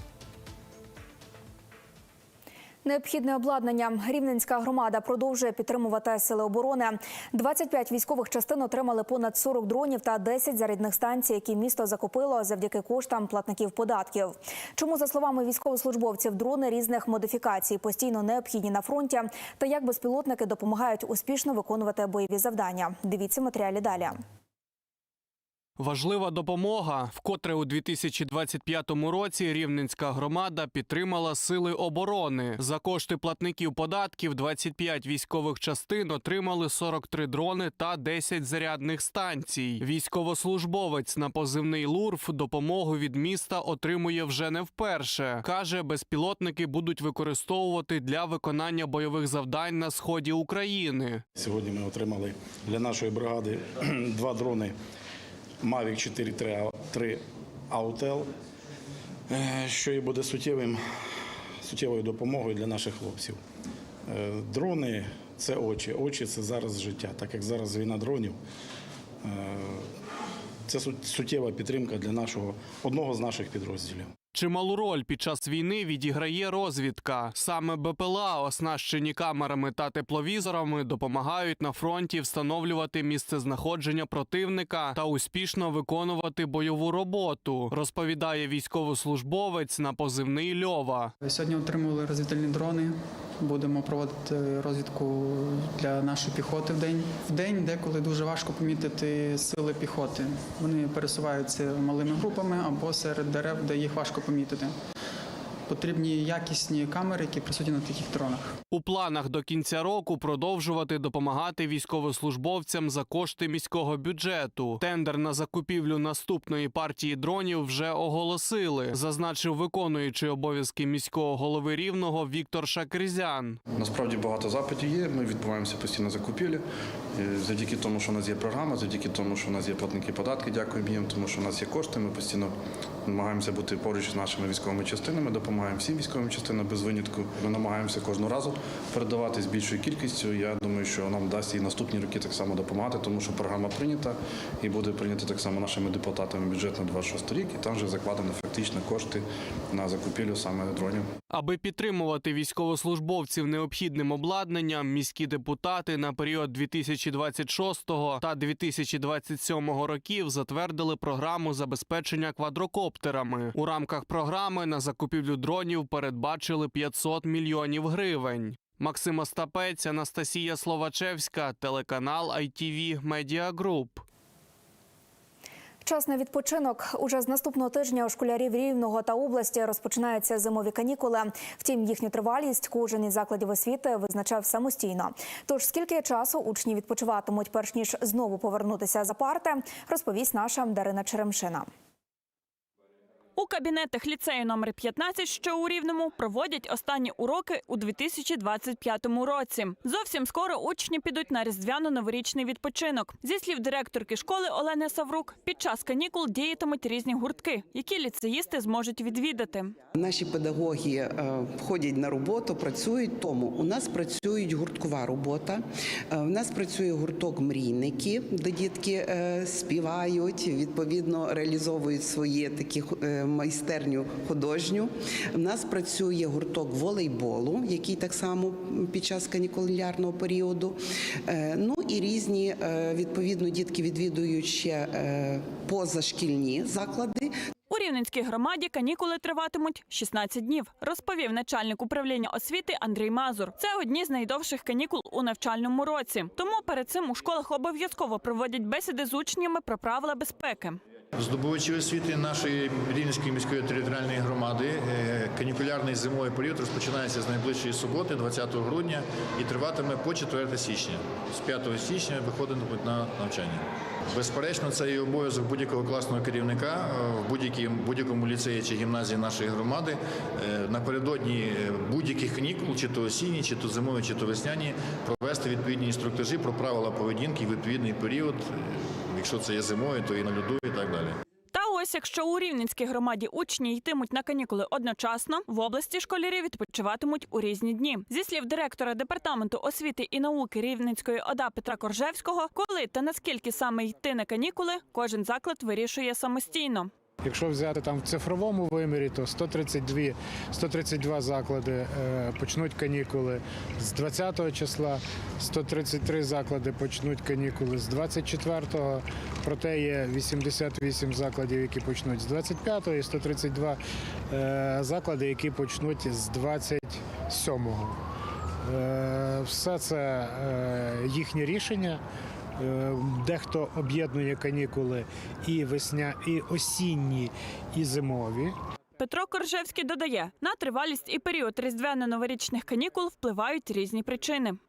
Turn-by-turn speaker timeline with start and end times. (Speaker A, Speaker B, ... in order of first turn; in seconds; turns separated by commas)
Speaker A: 2.8-24.2, Speaker B: 25.8-51.2, Speaker C: 51.4-54.7, Speaker C: 55.6-58.3, Speaker C: 59.3-60.8, Speaker C: 61.6-63.4, Speaker C: 64.1-68.4, Speaker C: 69.2-69.8, Speaker C: 70.7-74.1, Speaker B: 74.3-91.1, Speaker D: 91.2-104.7, Speaker D: 105.7-108.6, Speaker B: 108.7-123.6, Speaker E: 123.8-132.5, Speaker E: 133.1-151.1, Speaker B: 151.3-174.1, Speaker A: 175.8-191.7, Speaker F: 193.4-209.8, Speaker G: 210.0-230.8, Speaker G: 231.3-237.3, Speaker F: 237.7-250.8, Speaker H: 251.2-281.1, Speaker F: 281.5-296.9, Speaker I: 297.2-313.8, Speaker I: 314.3-318.0, Speaker I: 318.6-322.0, Speaker I: 322.6-328.6, Speaker F: 329.0-334.6